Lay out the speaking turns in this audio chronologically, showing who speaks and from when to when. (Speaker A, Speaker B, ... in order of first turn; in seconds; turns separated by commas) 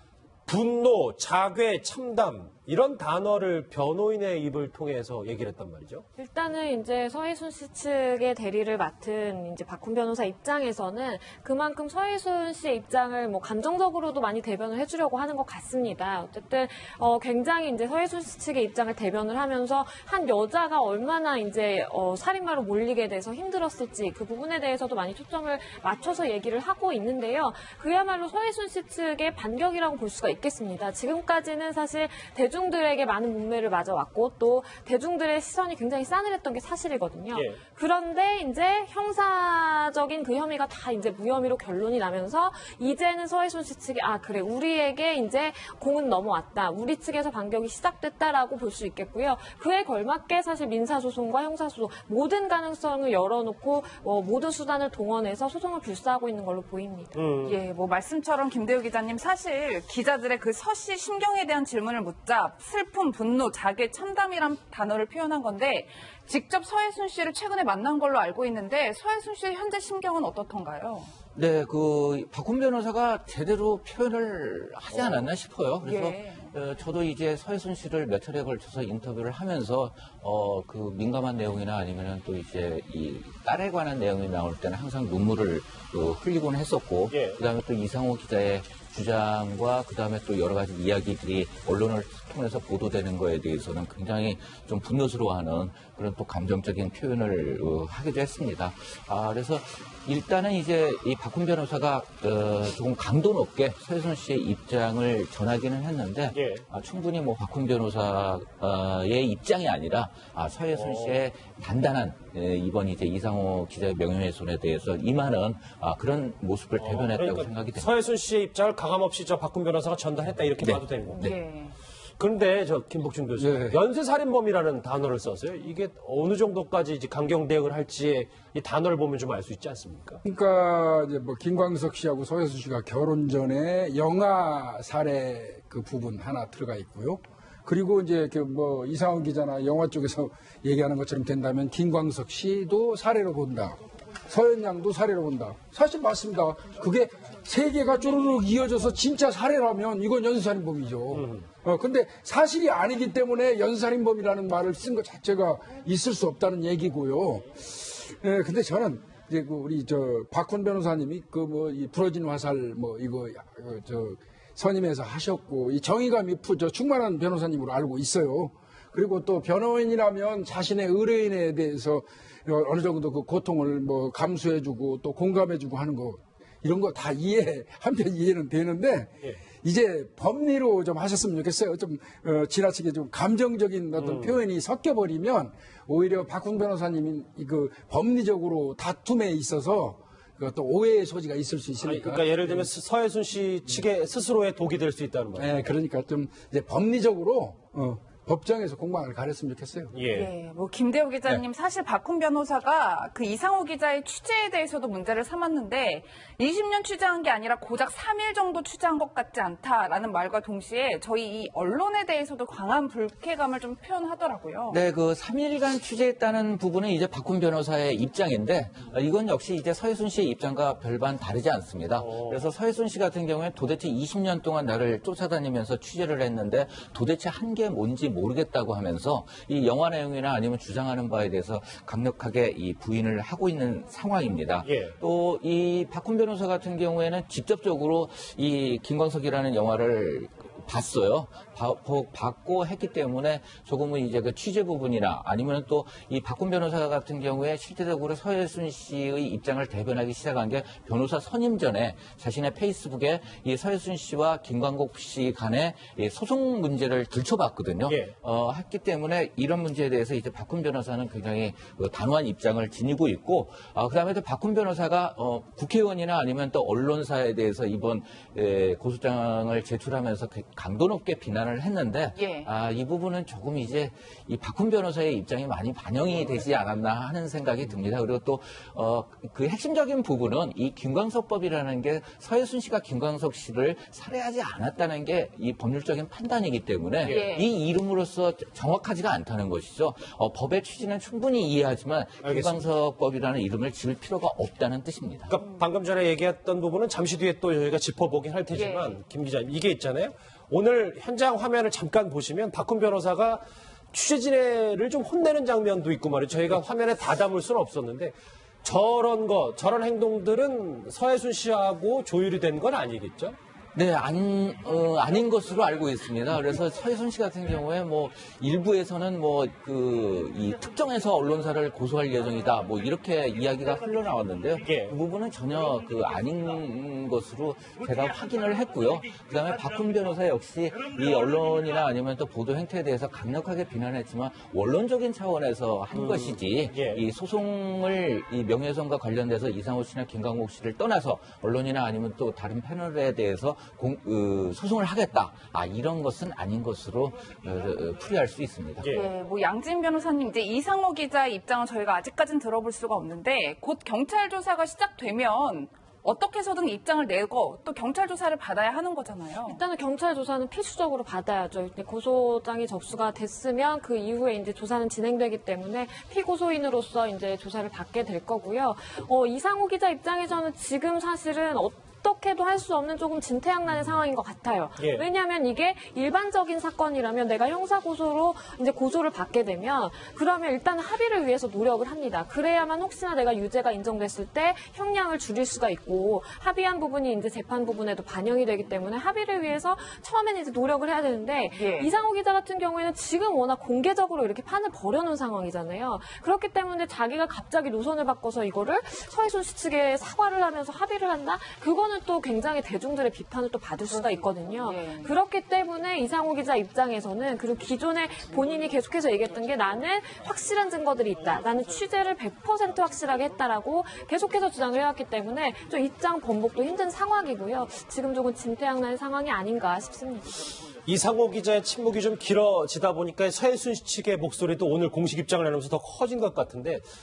Speaker A: 0.5-6.0, Speaker B: 6.2-57.1, Speaker A: 57.1-57.6, Speaker C: 57.4-71.1, Speaker D: 71.3-117.9, Speaker C: 75.8-76.5, Speaker A: 87.1-87.4, Speaker A: 106.3-106.6, Speaker A: 110.7-111.2, Speaker A: 116.8-121.3, Speaker D: 120.6-121.3, Speaker C: 121.2-121.7, Speaker A: 122.2-130.2, Speaker E: 123.4-123.8, Speaker E: 130.2-192.7, Speaker A: 151.1-151.4, Speaker A: 184.0-184.3, Speaker A: 191.8-195.5, Speaker E: 195.3-199.9, Speaker A: 199.9-200.3, Speaker C: 200.1-214.8, Speaker D: 214.7-295.3, Speaker A: 222.0-222.4, Speaker A: 234.6-235.0, Speaker A: 257.9-258.1, Speaker C: 272.1-272.5, Speaker C: 287.0-287.5, Speaker A: 292.2-292.6, Speaker A: 295.3-313.4, Speaker C: 298.5-299.0, Speaker D: 313.7-348.9, Speaker A: 324.6-325.0, Speaker A: 335.9-337.0, Speaker A: 348.8-349.1, Speaker C: 348.9-359.6, Speaker B: 359.4-420.5, Speaker A: 374.8-375.0, Speaker C: 391.5-391.9, Speaker C: 404.6-405.1, Speaker A: 420.8-426.8